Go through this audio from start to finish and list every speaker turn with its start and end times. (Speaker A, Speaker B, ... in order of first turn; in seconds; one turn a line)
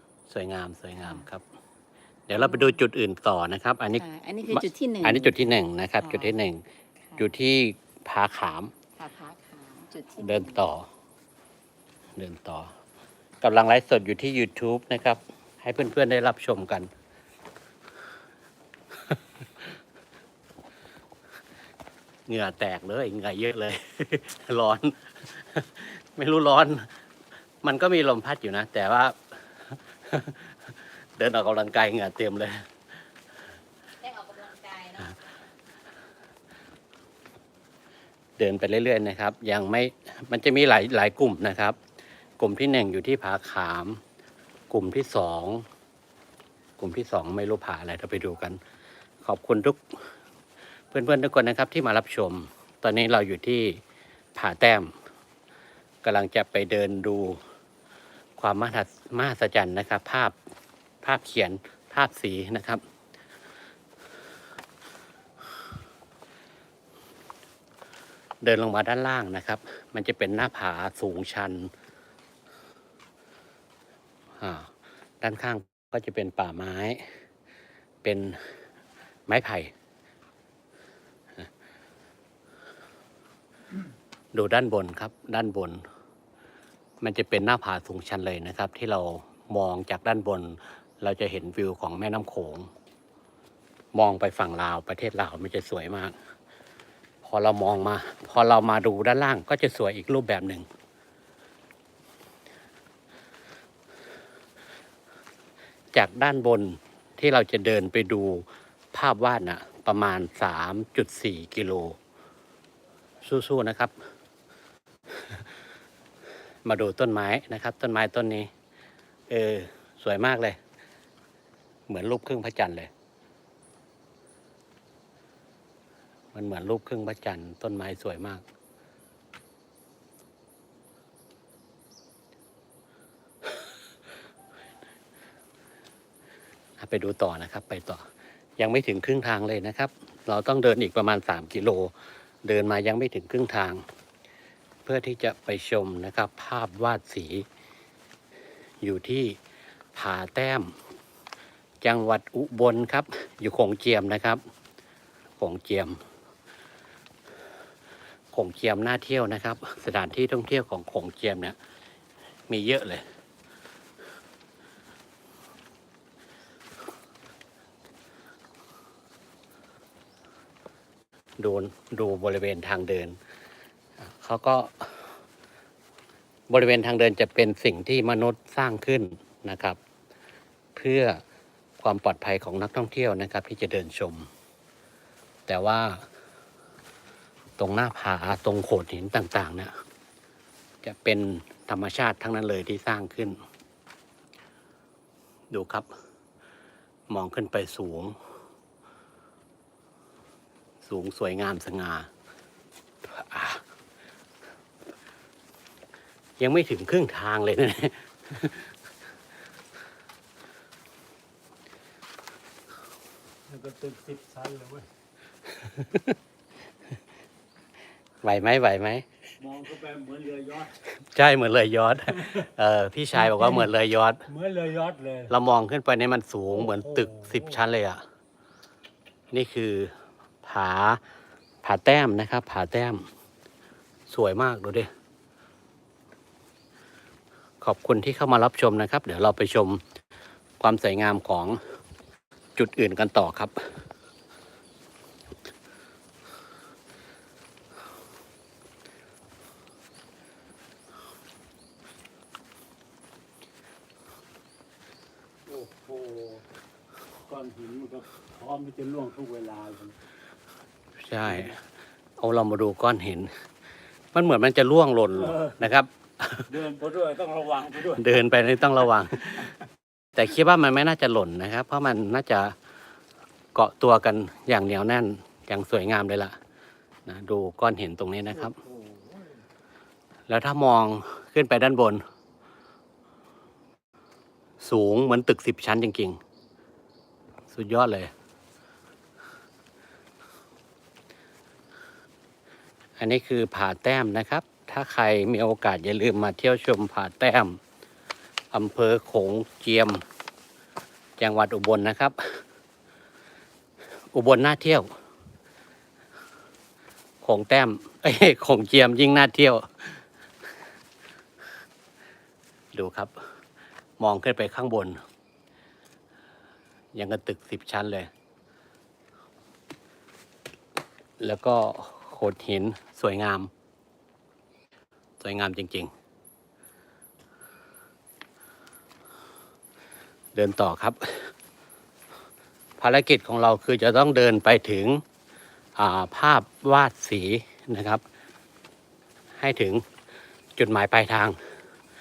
Speaker A: 0.3-1.4
Speaker A: 2.3-6.6
Speaker B: 2.3-2.8
Speaker B: 3.9-6.3
Speaker A: 7.2-8.7
Speaker B: 9.0-10.6
Speaker A: 10.2-10.9
Speaker A: 12.2-12.7
Speaker A: 13.4-16.9
Speaker A: 22.3-26.9
Speaker A: 27.6-30.5
Speaker A: 31.2-32.6
Speaker B: 34.0-35.3
Speaker A: 38.4-41.8
Speaker A: 42.4-44.0
Speaker A: 44.7-45.6
Speaker A: 46.8-48.6
Speaker A: 49.2-49.8
Speaker A: 50.9-53.8
Speaker A: 54.4-54.9
Speaker A: 56.0-57.4
Speaker A: 58.4-60.3
Speaker A: 61.0-62.8
Speaker A: 68.4-71.7
Speaker A: 74.4-74.7
Speaker A: 75.2-77.0
Speaker A: 78.0-78.4
Speaker A: 79.3-79.7
Speaker A: 84.3-85.8
Speaker A: 87.0-92.7
Speaker A: 93.9-96.2
Speaker A: 97.2-100.7
Speaker A: 105.9-112.0
Speaker A: 113.2-113.9
Speaker A: 116.6-118.5
Speaker A: 119.3-120.6
Speaker A: 121.9-122.9
Speaker A: 126.3-128.4
Speaker A: 136.8-138.0
Speaker A: 138.6-141.9
Speaker A: 142.4-143.8
Speaker A: 144.8-147.4
Speaker A: 148.8-149.4
Speaker A: 149.9-150.7
Speaker A: 151.8-154.4
Speaker A: 155.4-156.0
Speaker A: 158.3-161.6
Speaker A: 162.5-163.0
Speaker A: 171.4-173.2
Speaker A: 174.1-175.0
Speaker A: 176.5-179.8
Speaker A: 180.8-181.2
Speaker A: 181.8-184.3
Speaker A: 185.5-186.1
Speaker A: 187.6-189.7
Speaker A: 190.8-193.4
Speaker A: 195.5-195.9
Speaker A: 197.1-198.1
Speaker A: 200.8-202.1
Speaker A: 203.0-203.6
Speaker A: 206.4-208.7
Speaker C: 213.5-214.9
Speaker A: 215.7-216.1
Speaker A: 218.2-219.0
Speaker C: 219.4-220.8
Speaker A: 221.1-224.2
Speaker C: 223.2-223.7
Speaker C: 224.3-225.3
Speaker A: 225.3-228.0
Speaker C: 226.5-227.6
Speaker A: 229.3-229.9
Speaker A: 230.4-231.0
Speaker A: 231.6-233.0
Speaker A: 234.1-234.9
Speaker A: 237.6-239.8
Speaker A: 240.6-241.6
Speaker A: 242.6-243.5
Speaker C: 255.5-256.4
Speaker C: 257.3-259.9
Speaker A: 261.0-261.6
Speaker A: 262.2-263.3
Speaker A: 264.1-266.5
Speaker C: 266.5-268.1
Speaker A: 267.9-269.5
Speaker A: 270.1-272.5
Speaker A: 273.5-276.4
Speaker A: 277.1-278.6
Speaker A: 280.3-282.0
Speaker A: 284.6-286.2
Speaker A: 287.5-288.1
Speaker A: 293.0-297.6
Speaker A: 298.5-300.0
Speaker A: 301.2-302.4
Speaker A: 304.1-304.9
Speaker A: 307.2-310.0
Speaker A: 312.7-313.1
Speaker A: 314.0-315.0
Speaker A: 316.9-318.1
Speaker A: 321.2-323.5
Speaker A: 325.2-325.9
Speaker A: 330.3-331.3
Speaker A: 332.8-335.0
Speaker A: 335.8-338.0
Speaker A: 339.4-339.8
Speaker A: 340.6-341.4